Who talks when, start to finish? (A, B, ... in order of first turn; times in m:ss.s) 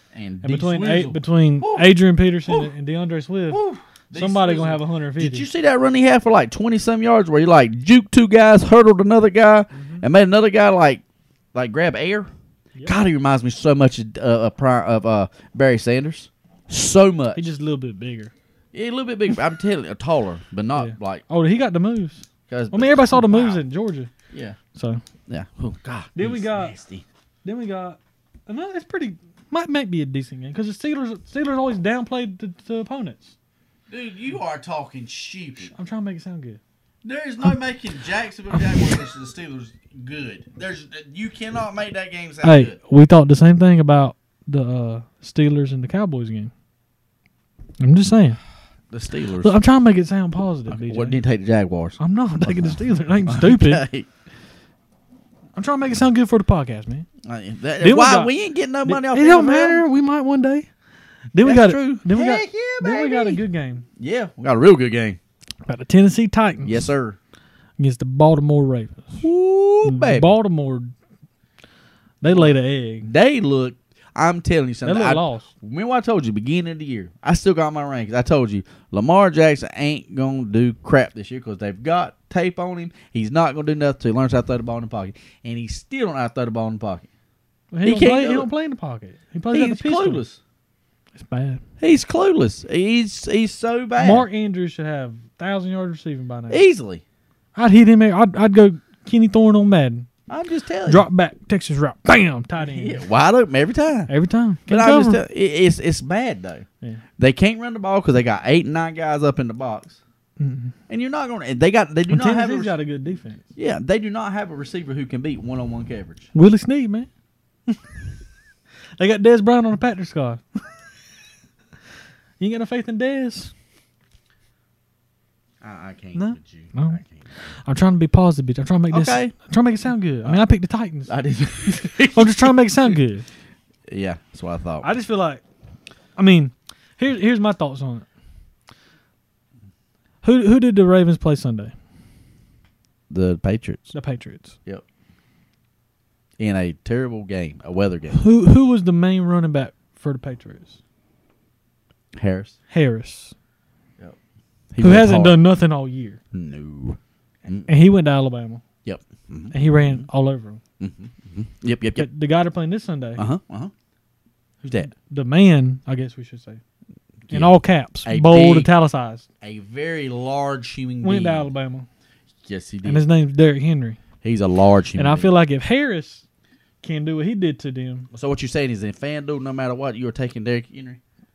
0:00.1-0:01.9 A
0:00.4-0:03.6 B
0:02.5-0:02.7 A
0:03.5-0:11.0 A
0:04.1-0:05.5 B
0:09.7-0:10.0 B
0:11.5-0:12.3 A
0:12.8-0:17.4 A
0:17.4-0:18.3 B
0:18.7-0:21.2 A
0:20.8-0:24.1 B
0:22.5-0:23.6 A
0:24.3-0:24.6 A
0:24.8-0:25.0 B
0:25.3-0:27.0 A
0:26.2-0:26.8 B
0:27.4-0:33.4 B
0:33.9-0:35.7 A
0:35.7-0:36.6 B
0:37.0-0:42.8 A
0:42.4-0:46.5 B
0:47.8-0:48.4 B
0:48.9-0:49.6 A
0:49.4-0:51.2 B
0:50.7-0:54.1 A
0:52.0-0:53.8 B
0:55.6-0:57.1 B
0:57.2-0:59.8 A
0:57.8-0:58.3 B
0:58.8-1:00.7 B
1:01.3-1:03.9 B
1:01.4-1:03.4 A
1:04.0-1:05.2 A
1:05.7-1:06.9 B
1:06.6-1:07.2 A
1:07.8-1:09.3 B
1:09.2-1:10.3 A
1:09.8-1:10.9 B
1:12.2-1:13.1 B
1:12.3-1:27.1 A
1:14.8-1:15.5 B
1:27.7-1:30.2 B
1:27.8-1:28.5 A
1:29.5-1:30.4 A
1:31.2-1:31.6 B
1:31.8-1:34.3 A
1:34.0-1:36.6 B
1:36.5-1:37.0 A
1:37.6-1:40.1 B
1:40.3-1:41.1 A
1:40.9-1:43.0 B
1:42.6-1:44.1 A
1:44.1-1:45.2 B
1:44.7-1:46.7 A
1:47.2-1:50.0 A
1:50.4-1:50.7 B
1:50.9-1:52.7 A
1:52.1-1:53.4 B
1:53.6-1:56.3 A
1:56.3-1:57.1 B
1:59.0-2:00.6 B
2:02.4-2:03.5 B
2:05.6-2:07.2 A
2:06.2-2:07.0 B
2:07.7-2:11.2 B
2:08.9-2:09.3 A
2:11.1-2:12.5 A
2:11.7-2:13.3 B
2:13.9-2:14.9 A
2:14.8-2:15.4 B
2:16.2-2:18.1 B
2:20.2-2:21.7 B
2:23.1-2:23.9 A
2:23.9-2:24.6 B
2:26.4-2:28.2 A
2:28.1-2:30.8 B
2:32.1-2:32.6 A
2:32.7-2:33.3 B
2:34.7-2:35.4 A
2:34.8-2:36.2 B
2:36.3-2:37.7 A
2:37.7-2:38.6 B
2:38.8-2:40.1 A
2:39.5-2:40.6 B
2:40.8-2:42.1 A
2:42.0-2:43.3 B
2:43.2-2:43.7 A
2:44.6-2:44.9 A
2:44.8-2:46.6 B
2:47.3-2:48.7 A
2:47.3-2:49.3 B
2:49.4-2:51.5 A
2:51.0-2:51.9 B
2:52.4-2:53.0 A
2:52.8-2:54.0 B
2:54.2-2:55.3 A
2:55.0-2:56.2 B
2:56.8-2:58.1 B
2:58.1-3:01.0 A